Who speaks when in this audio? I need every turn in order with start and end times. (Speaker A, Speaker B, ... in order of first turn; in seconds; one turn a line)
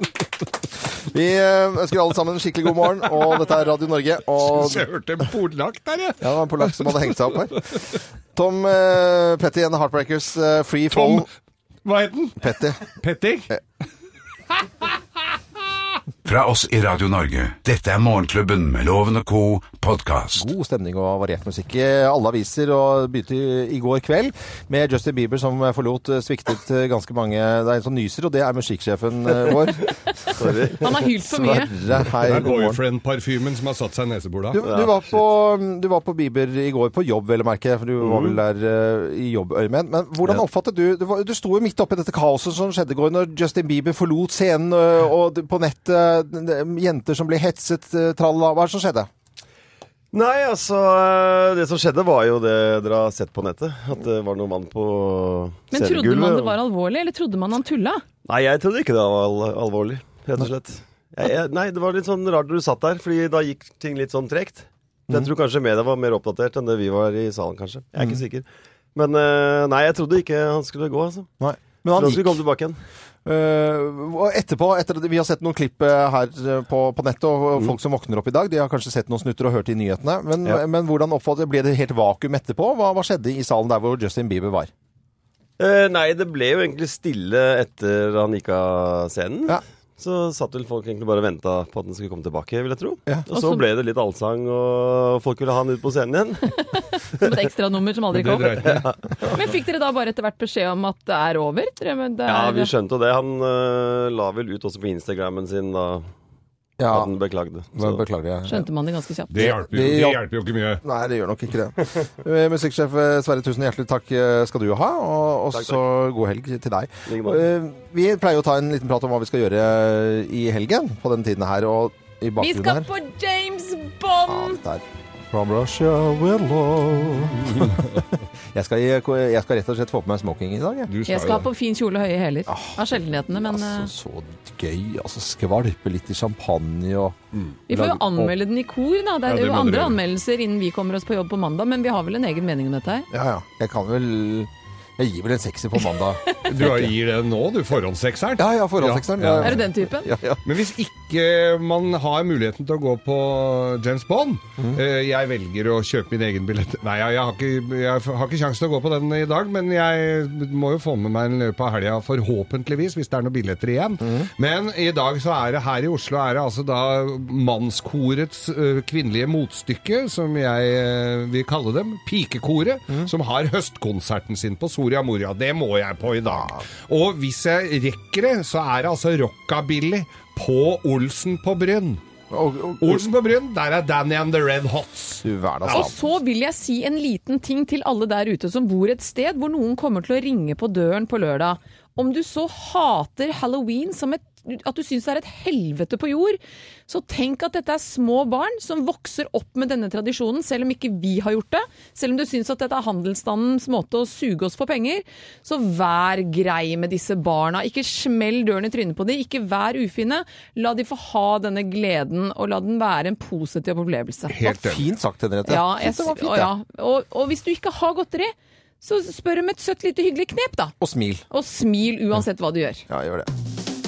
Speaker A: 1.0-4.8
Speaker B: 4.4-8.0
Speaker A: 6.2-7.7
Speaker A: 8.3-11.3
Speaker B: 10.9-11.3
Speaker B: 11.8-13.5
Speaker A: 12.4-12.8
Speaker C: 16.2-20.5
Speaker A: 20.3-32.8
Speaker D: 30.4-30.9
Speaker E: 30.8-31.7
Speaker B: 32.2-34.6
Speaker A: 34.5-49.1
Speaker D: 34.6-35.0
Speaker D: 38.0-38.4
Speaker D: 50.1-56.5
Speaker E: 55.7-58.0
Speaker D: 58.2-71.3
Speaker A: 71.4-72.4
Speaker D: 71.9-72.8
Speaker A: 73.2-84.7
Speaker D: 85.6-96.5
Speaker E: 93.3-93.6
Speaker E: 97.2-102.7
Speaker B: 98.1-98.9
Speaker D: 102.2-106.1
Speaker A: 106.8-107.2
Speaker D: 106.9-108.0
Speaker A: 107.7-108.7
Speaker E: 108.5-109.3
Speaker B: 109.3-110.8
Speaker A: 109.4-110.2
Speaker A: 110.8-122.9
Speaker D: 117.1-117.4
Speaker E: 122.4-124.6
Speaker A: 124.3-128.0
Speaker B: 127.6-127.9
Speaker A: 128.5-130.9
Speaker B: 130.9-131.5
Speaker E: 131.1-133.9
Speaker A: 132.5-137.2
Speaker E: 137.7-143.1
Speaker A: 137.7-138.2
Speaker B: 139.2-140.0
Speaker A: 143.1-146.9
Speaker B: 146.4-149.7
Speaker A: 148.4-150.4
Speaker E: 149.4-150.1
Speaker B: 150.4-182.0
Speaker A: 176.3-176.6
Speaker A: 182.3-183.1
Speaker B: 182.8-185.9
Speaker A: 185.2-185.9
Speaker E: 185.7-214.4
Speaker B: 214.3-214.9
Speaker A: 214.4-216.5
Speaker E: 215.4-220.7
Speaker A: 220.8-221.2
Speaker E: 221.3-222.9
Speaker A: 222.9-223.3